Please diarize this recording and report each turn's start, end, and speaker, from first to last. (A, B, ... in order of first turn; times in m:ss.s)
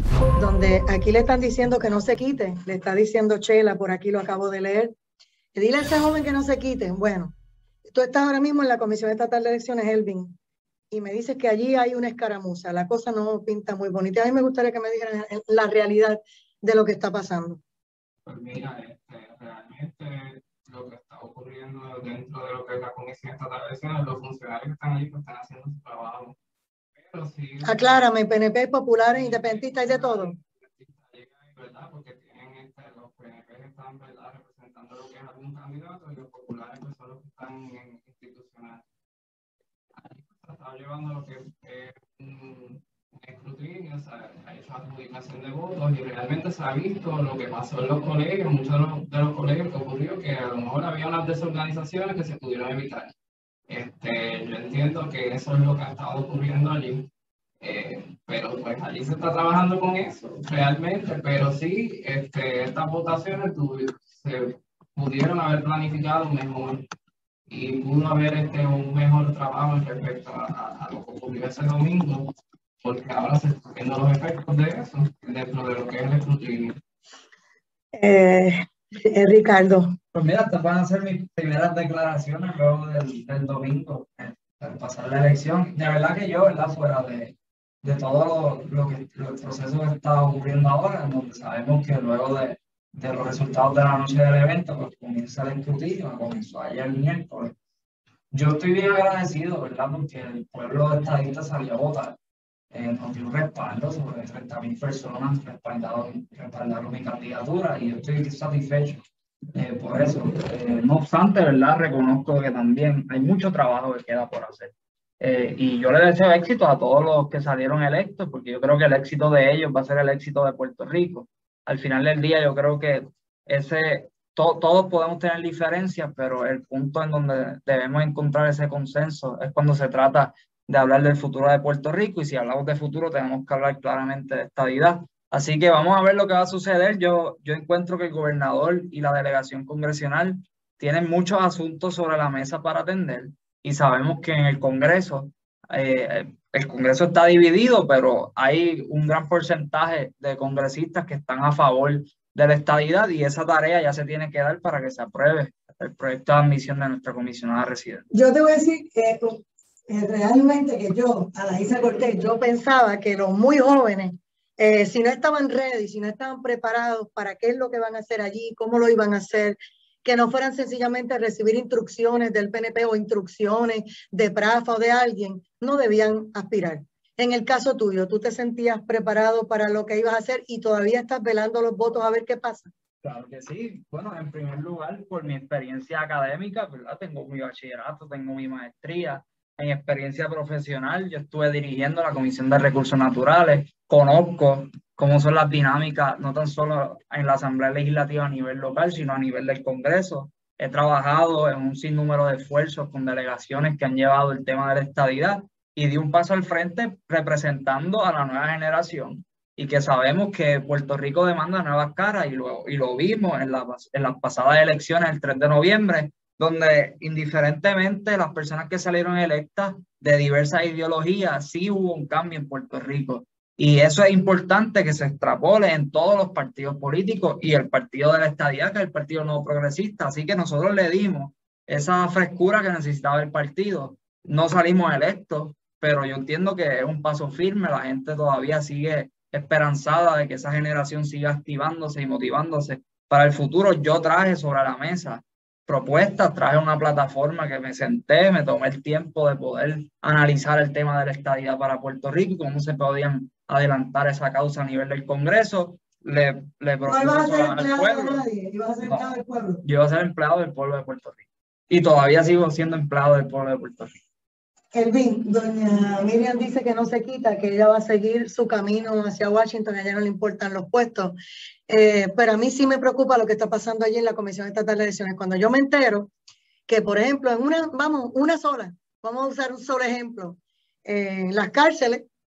0:00.4-0:04.9 A
0:05.6-0:10.3 A
0:10.9-0:17.6 A
0:18.3-0:26.4 B
0:27.0-0:28.0 B
0:27.6-0:30.3 A
0:29.1-0:38.8 B
0:39.9-0:53.1 B
0:53.7-0:57.1 B
0:57.6-1:06.8 B
1:07.5-1:12.3 B
1:12.8-1:16.8 B
1:18.0-1:20.0 A
1:20.1-1:37.5 C
1:38.3-1:42.2 C
1:42.7-2:38.1 C
2:38.1-3:02.7 A
3:03.0-4:18.3 C
4:16.9-4:19.6 A
4:19.6-4:24.0 C
4:24.7-4:31.2 A
4:31.7-4:36.1 A
4:36.7-4:42.1 A